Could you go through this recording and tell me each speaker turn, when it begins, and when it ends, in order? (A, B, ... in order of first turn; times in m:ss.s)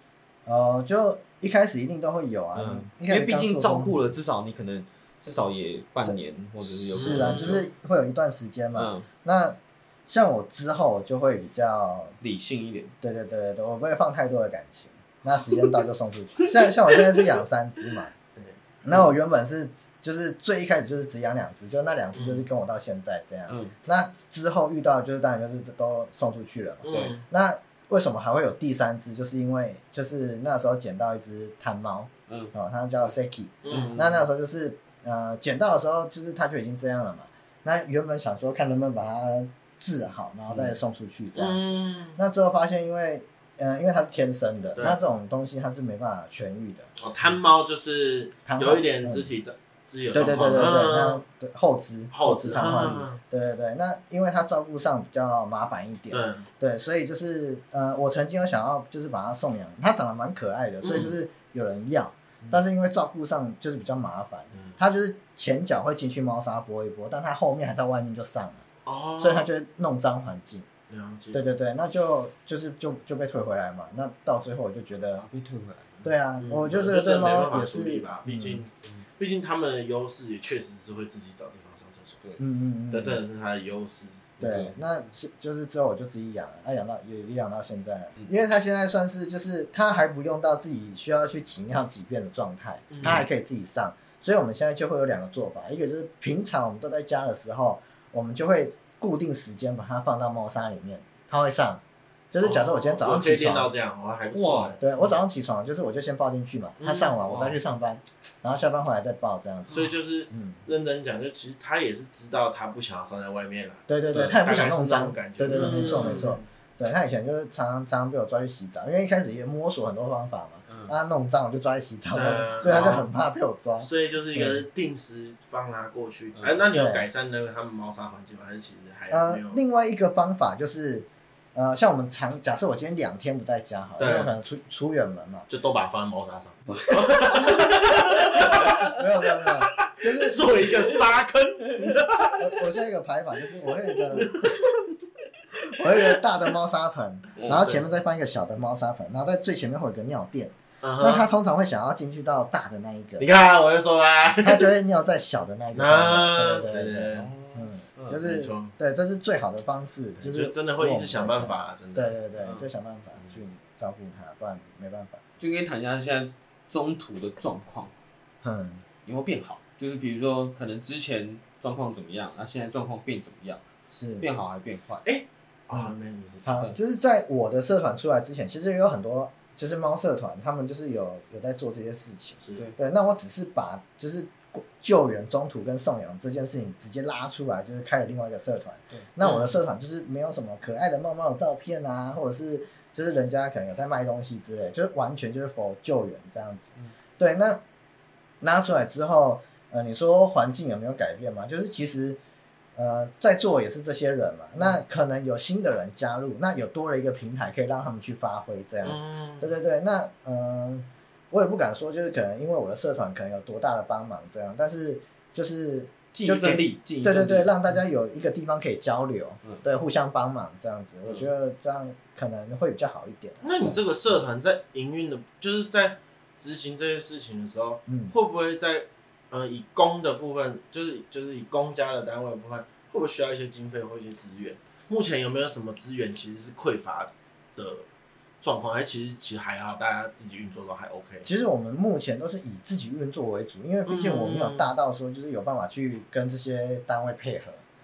0:00.5-0:04.0 A
0:02.6-0:07.6 B
0:06.1-0:12.2 A
0:07.0-0:07.6 C
0:08.8-0:09.1 B
0:12.2-0:12.9 B
0:13.0-0:18.1 A
0:18.8-0:46.9 A
0:22.2-0:22.4 C
0:23.5-0:23.8 B
0:26.8-0:27.2 C
0:26.9-0:27.1 B
0:32.3-0:32.5 B
0:33.6-0:34.0 C
0:33.7-0:34.3 B
0:41.4-0:42.2 C
0:47.0-0:51.2 C
0:48.5-0:49.3 A
0:50.1-1:08.6 A
0:52.1-0:53.2 C
0:56.1-0:56.5 C
1:00.8-1:01.2 C
1:08.9-1:09.5 C
1:09.2-1:10.7 A
1:10.9-1:11.4 C
1:11.3-1:15.3 A
1:15.2-1:16.1 B
1:16.0-1:18.6 A
1:16.4-1:22.2 C
1:22.4-1:23.2 A
1:22.9-1:24.4 C
1:24.4-1:24.8 B
1:24.4-1:43.7 A
1:32.9-1:33.2 C
1:42.4-1:45.0 C
1:44.3-1:44.8 B
1:44.8-1:50.6 A
1:46.8-1:47.2 C
1:47.2-1:47.6 B
1:49.7-1:56.4 C
1:53.9-2:04.7 A
1:55.5-1:56.4 B
2:00.7-2:00.9 B
2:02.1-2:03.1 C
2:03.8-2:09.6 C
2:06.7-2:07.1 A
2:09.1-2:15.5 A
2:14.0-2:14.3 C
2:15.5-2:22.6 C
2:16.7-2:20.8 A
2:22.4-2:24.7 A
2:24.1-2:24.6 C
2:25.7-2:33.3 A
2:27.4-2:27.6 B
2:27.4-2:27.8 C
2:30.8-2:31.3 C
2:33.2-2:34.7 C
2:34.4-2:45.2 A
2:35.7-2:37.3 C
2:37.1-2:38.2 B
2:38.2-2:38.7 C
2:40.2-2:42.1 C
2:42.4-2:42.7 B
2:45.4-2:47.9 B
2:48.4-2:48.8 A
2:49.0-2:53.6 B
2:53.9-2:54.3 A
2:54.2-2:55.0 B
2:55.0-2:56.6 C
2:56.5-3:17.6 A
3:02.4-3:02.7 C
3:08.9-3:09.5 B
3:18.4-3:22.2 A
3:22.8-3:43.8 A
3:28.8-3:29.5 C
3:36.1-3:37.8 B
3:43.4-3:57.9 C
3:47.9-3:48.2 A
3:58.4-4:01.3 C
4:01.2-4:07.6 A
4:03.9-4:04.7 C